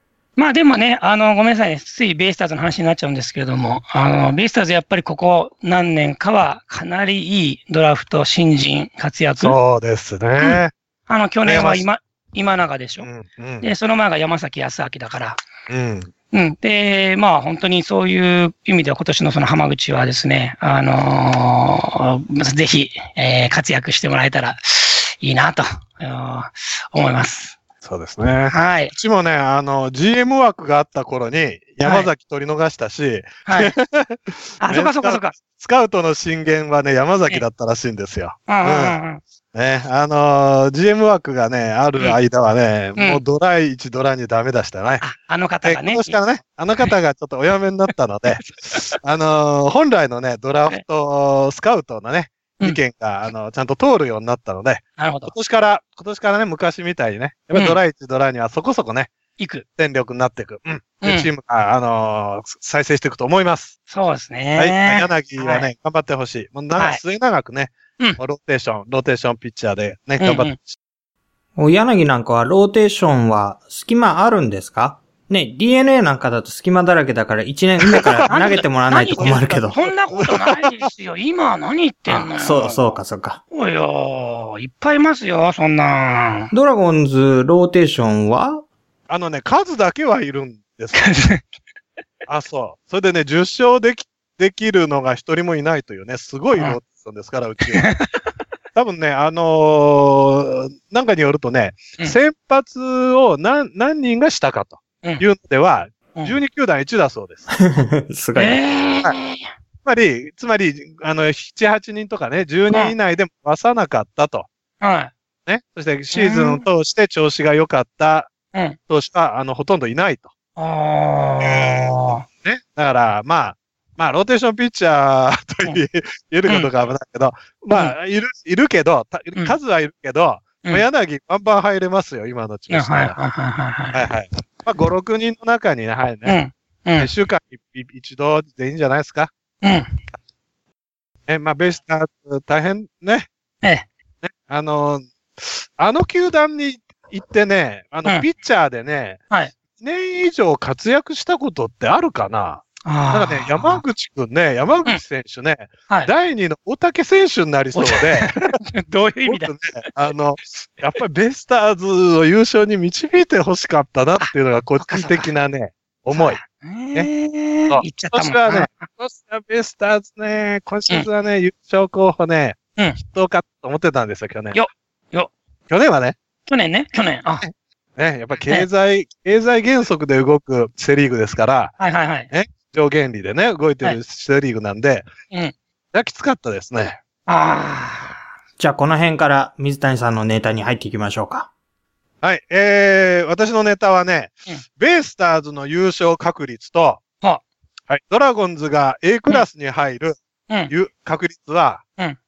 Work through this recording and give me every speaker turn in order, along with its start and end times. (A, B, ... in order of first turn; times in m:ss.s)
0:00.4-0:09.6 A
0:09.4-0:10.7 B
0:10.4-0:13.1 A
0:11.4-0:11.8 B
0:13.0-0:13.7 B
0:13.6-0:15.4 A
0:15.7-0:16.1 B
0:16.3-0:27.6 A
0:27.8-0:39.0 B
0:28.5-0:28.9 A
0:31.8-0:32.1 A
0:33.5-0:33.8 A
0:34.6-0:35.4 A
0:38.5-0:39.2 A
0:39.5-0:45.0 B
0:43.0-0:43.2 A
0:45.0-0:46.1 A
0:45.6-0:59.1 B
0:48.3-0:49.0 A
0:55.0-0:55.3 A
0:59.4-0:59.6 A
0:59.8-1:03.8 B
1:01.0-1:01.3 A
1:03.9-1:05.7 A
1:04.6-1:10.8 B
1:06.8-1:07.0 A
1:10.2-1:10.5 A
1:11.6-1:19.8 C
1:18.0-1:18.6 B
1:18.2-1:22.8 A
1:19.1-1:20.9 B
1:22.1-1:23.4 C
1:23.5-1:26.5 A
1:26.5-1:28.6 C
1:29.1-1:31.1 B
1:30.9-1:31.4 A
1:32.3-1:37.9 B
1:37.7-1:38.2 A
1:38.8-1:47.5 B
1:47.5-1:48.6 C
1:48.4-1:49.5 A
1:49.8-1:54.5 B
1:54.8-1:55.1 A
1:55.5-1:58.3 B
1:56.1-1:56.6 A
1:58.9-2:00.3 B
2:00.6-2:02.2 A
2:01.4-2:13.2 B
2:12.7-2:14.0 A
2:13.9-2:16.4 B
2:16.2-2:17.1 A
2:17.0-2:19.3 B
2:19.6-2:19.9 A
2:21.3-2:23.3 B
2:23.6-2:23.9 A
2:24.2-2:29.2 B
2:29.8-2:38.5 B
2:32.8-2:33.8 A
2:37.8-2:39.6 A
2:39.2-2:46.4 B
2:44.2-2:45.3 A
2:46.1-2:48.9 A
2:47.7-2:54.6 B
2:54.5-2:55.3 A
2:55.7-2:56.2 B
2:56.5-2:57.4 A
2:57.4-3:01.8 B
3:01.8-3:02.3 A
3:02.3-3:05.1 B
3:05.9-3:07.0 B
3:07.3-3:08.2 A
3:08.6-3:11.5 C
3:12.2-3:17.0 B
3:17.9-3:20.2 B
3:20.7-3:21.8 B